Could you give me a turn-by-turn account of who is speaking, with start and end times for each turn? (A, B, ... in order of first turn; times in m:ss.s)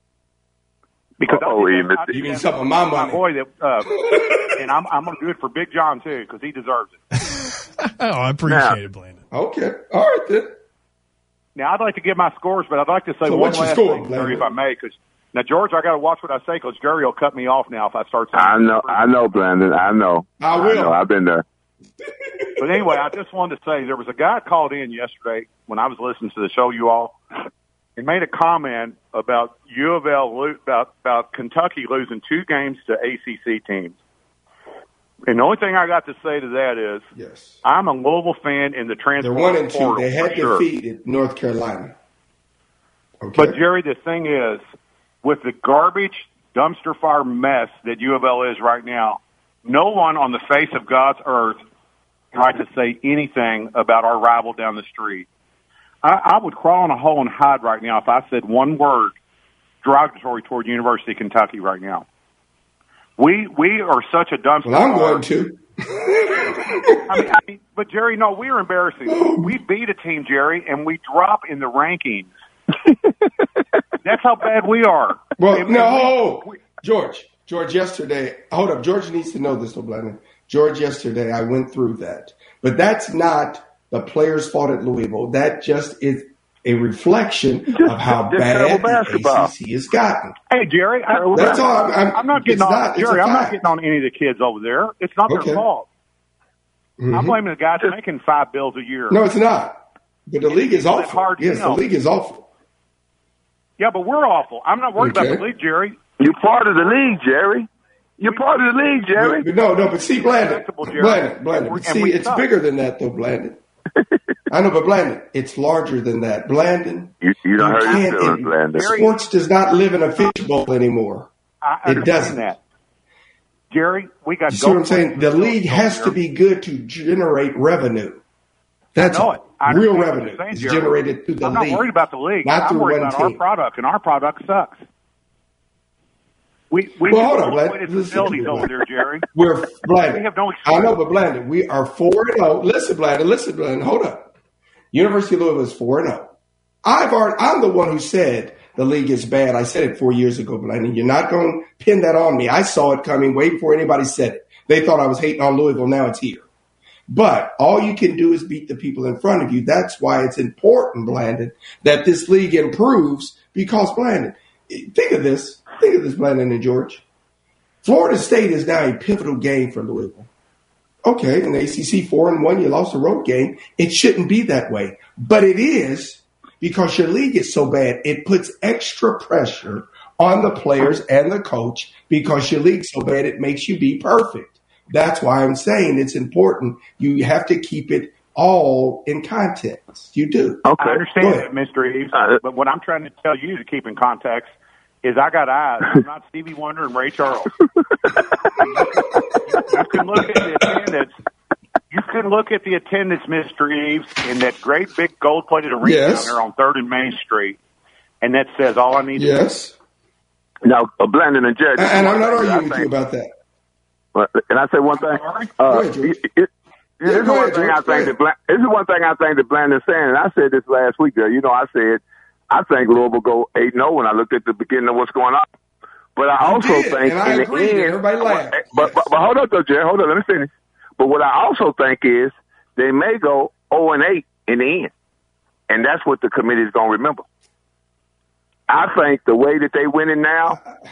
0:01.2-0:07.0 A
0:01.2-0:02.1 B
0:02.1-0:03.2 C
0:04.0-0:04.5 C
0:07.2-0:09.2 D
0:08.4-0:08.8 B
0:09.3-0:10.5 C
0:11.6-0:19.0 A
0:13.2-0:14.5 C
0:18.3-0:21.4 B
0:20.4-0:21.0 C
0:22.6-0:27.2 A
0:28.0-0:34.0 A
0:35.3-0:37.1 A
0:37.1-0:37.6 C
0:37.6-0:40.6 A
0:39.2-0:41.9 C
0:43.2-0:43.6 C
0:43.4-0:44.6 A
0:45.2-0:51.6 A
0:52.3-0:55.3 A
0:56.0-0:59.2 A
0:59.8-1:02.0 A
1:03.2-1:05.2 A
1:04.6-1:07.0 C
1:07.0-1:12.3 A
1:09.0-1:09.5 C
1:14.0-1:16.5 A
1:15.4-1:30.3 C
1:27.7-1:29.5 B
1:30.5-1:35.9 A
1:31.1-1:31.6 B
1:31.3-1:33.6 C
1:35.3-1:35.6 C
1:37.0-1:37.4 C
1:37.1-1:39.2 A
1:39.1-1:42.5 C
1:40.4-1:41.8 A
1:43.8-1:46.8 A
1:45.0-1:45.4 C
1:46.2-1:47.7 B
1:48.2-1:49.4 B
1:48.3-1:48.8 A
1:49.2-1:53.6 C
1:50.0-1:52.4 A
1:54.5-2:01.3 C
1:57.2-1:58.8 B
1:58.7-1:59.2 A
2:00.2-2:00.4 A
2:01.6-2:02.6 A
2:01.8-2:02.5 C
2:03.7-2:06.2 A
2:04.5-2:08.2 C
2:08.9-2:11.9 C
2:09.0-2:14.8 A
2:12.4-2:13.4 C
2:16.7-2:19.2 A
2:17.1-2:18.7 C
2:19.3-2:24.3 C
2:20.1-2:21.0 A
2:24.9-2:26.3 C
2:26.8-2:36.4 C
2:37.1-2:47.0 C
2:47.8-2:50.3 C
2:51.0-3:10.6 C
3:10.6-3:11.0 B
3:10.8-3:17.5 A
3:11.2-3:11.5 C
3:19.6-3:21.1 A
3:21.9-3:27.6 A
3:25.8-3:26.4 C
3:28.2-3:29.4 A
3:29.2-3:29.7 C
3:30.6-3:32.9 B
3:31.8-3:33.3 C
3:34.1-3:36.5 B
3:35.0-3:35.5 A
3:35.6-3:36.2 C
3:37.0-3:45.5 B
3:37.0-3:38.1 C
3:46.2-3:54.9 B
3:46.4-3:49.0 C
3:55.7-3:57.2 B
3:58.7-4:00.6 B